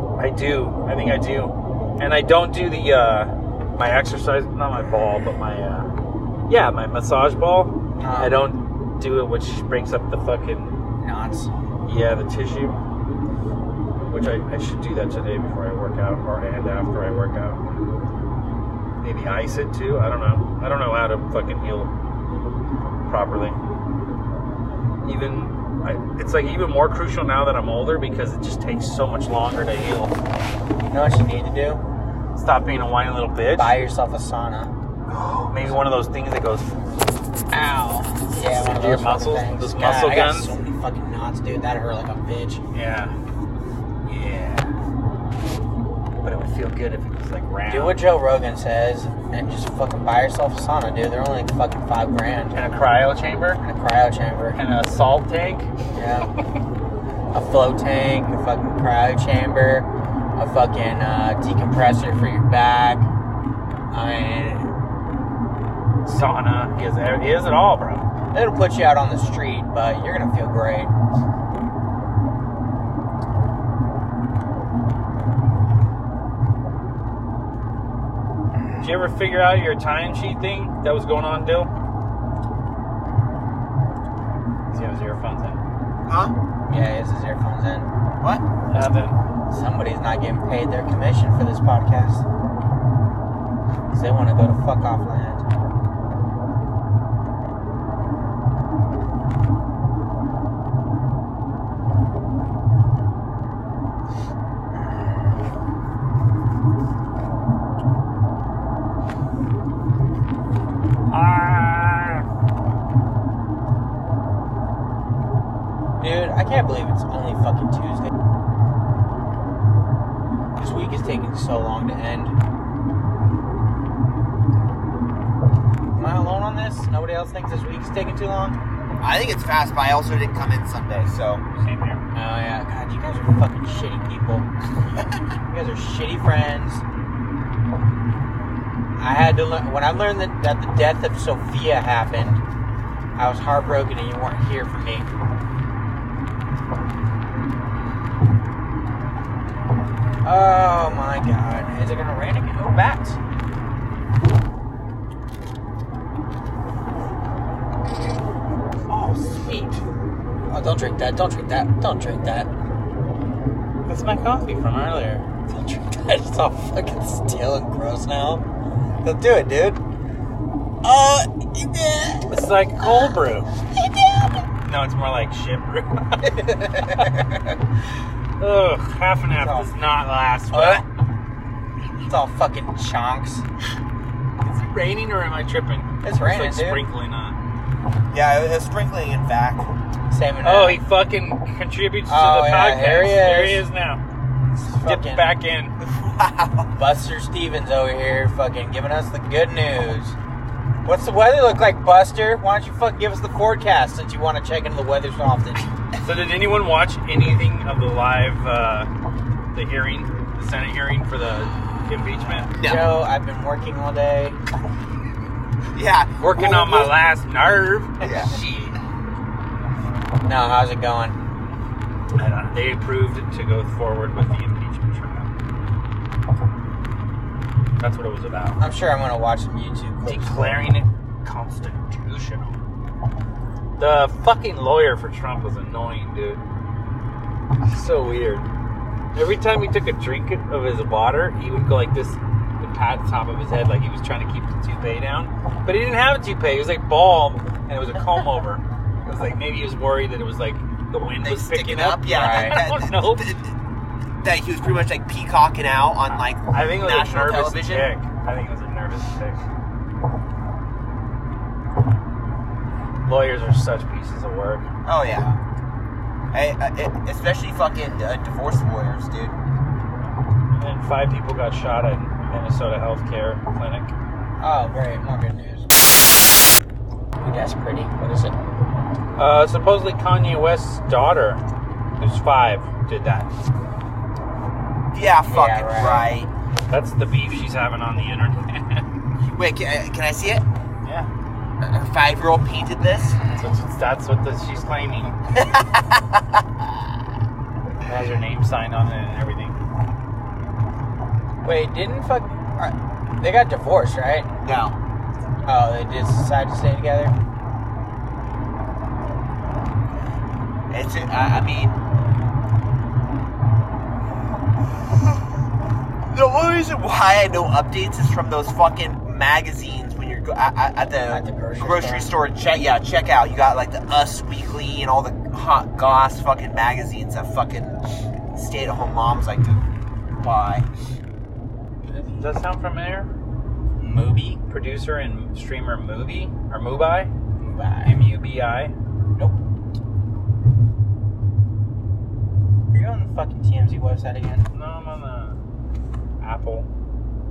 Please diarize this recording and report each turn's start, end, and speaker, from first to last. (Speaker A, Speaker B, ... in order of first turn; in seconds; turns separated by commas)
Speaker A: 0.2-5.9, Speaker A: 6.5-10.8, Speaker B: 8.0-8.3, Speaker B: 11.0-11.5, Speaker A: 11.9-12.8, Speaker A: 14.1-17.6, Speaker A: 19.0-21.9, Speaker A: 23.1-23.6, Speaker A: 25.0-30.1, Speaker B: 30.9-31.8, Speaker A: 32.4-33.8, Speaker B: 33.5-34.7, Speaker A: 35.1-36.7, Speaker B: 37.5-42.6, Speaker A: 38.5-40.5, Speaker A: 42.7-43.1, Speaker A: 44.0-44.7, Speaker A: 46.2-48.0, Speaker B: 47.7-52.5, Speaker A: 52.5-53.6, Speaker B: 53.6-54.6, Speaker A: 54.5-55.7, Speaker B: 55.9-56.3, Speaker B: 57.3-63.1, Speaker B: 63.9-64.7, Speaker A: 66.0-68.1, Speaker B: 68.3-70.9, Speaker A: 78.8-81.7, Speaker A: 84.7-85.6, Speaker C: 86.1-86.3, Speaker B: 86.7-87.9, Speaker A: 88.7-89.2, Speaker B: 89.5-92.3, Speaker B: 93.9-95.5, Speaker A: 111.1-112.2, Speaker B: 116.0-118.1, Speaker B: 120.6-122.4, Speaker B: 126.0-128.6, Speaker C: 129.0-131.4, Speaker A: 131.6-132.0, Speaker B: 132.1-134.5, Speaker B: 135.5-136.8, Speaker B: 139.0-142.4, Speaker B: 143.2-145.1, Speaker B: 150.2-153.2, Speaker A: 158.9-159.8, Speaker B: 160.5-162.5, Speaker A: 163.9-165.3, Speaker B: 165.5-168.4, Speaker B: 169.0-169.8, Speaker B: 170.8-172.3, Speaker A: 172.3-173.5, Speaker B: 173.7-174.4, Speaker A: 174.6-176.3, Speaker B: 176.2-177.6, Speaker A: 178.4-180.8, Speaker B: 179.3-179.7, Speaker B: 180.5-180.8, Speaker B: 181.9-183.4, Speaker A: 184.4-187.4, Speaker B: 186.0-186.8, Speaker C: 188.1-189.7, Speaker B: 190.1-190.8, Speaker A: 190.4-194.0, Speaker B: 192.1-193.7, Speaker B: 194.6-195.3, Speaker A: 194.8-195.8, Speaker C: 196.0-196.7, Speaker B: 196.7-200.2, Speaker B: 200.8-205.7, Speaker A: 206.0-208.9, Speaker A: 209.5-212.5, Speaker C: 212.6-212.9, Speaker B: 212.6-214.4, Speaker C: 215.7-216.9, Speaker A: 216.2-218.8, Speaker C: 218.0-218.3, Speaker B: 220.2-221.2, Speaker A: 222.2-225.3, Speaker A: 227.8-228.6, Speaker B: 228.6-230.6, Speaker A: 230.1-232.6, Speaker A: 233.8-236.4, Speaker A: 237.6-238.5, Speaker A: 239.2-253.4, Speaker C: 251.2-253.5, Speaker B: 252.0-252.6, Speaker C: 254.2-257.9, Speaker A: 256.5-259.4, Speaker A: 263.1-264.7, Speaker C: 264.9-265.3, Speaker C: 266.3-269.4, Speaker A: 270.5-273.9, Speaker B: 274.4-275.7, Speaker B: 277.2-278.4, Speaker A: 279.2-281.4, Speaker A: 282.0-283.3, Speaker C: 284.9-286.3, Speaker B: 285.3-286.1, Speaker A: 286.7-288.9, Speaker C: 289.3-290.4, Speaker A: 290.8-291.1, Speaker C: 291.6-293.2, Speaker A: 293.3-295.2, Speaker C: 295.4-296.0, Speaker A: 297.8-299.6, Speaker B: 301.4-304.3, Speaker C: 304.4-304.8, Speaker B: 305.5-307.1, Speaker C: 310.7-311.8, Speaker C: 316.1-329.6, Speaker B: 321.1-322.1, Speaker C: 330.2-330.7, Speaker A: 332.2-333.1, Speaker B: 333.8-334.4, Speaker A: 334.5-337.1, Speaker B: 337.4-338.0, Speaker A: 337.9-338.8, Speaker B: 342.7-344.5, Speaker A: 344.5-345.4, Speaker A: 346.2-346.7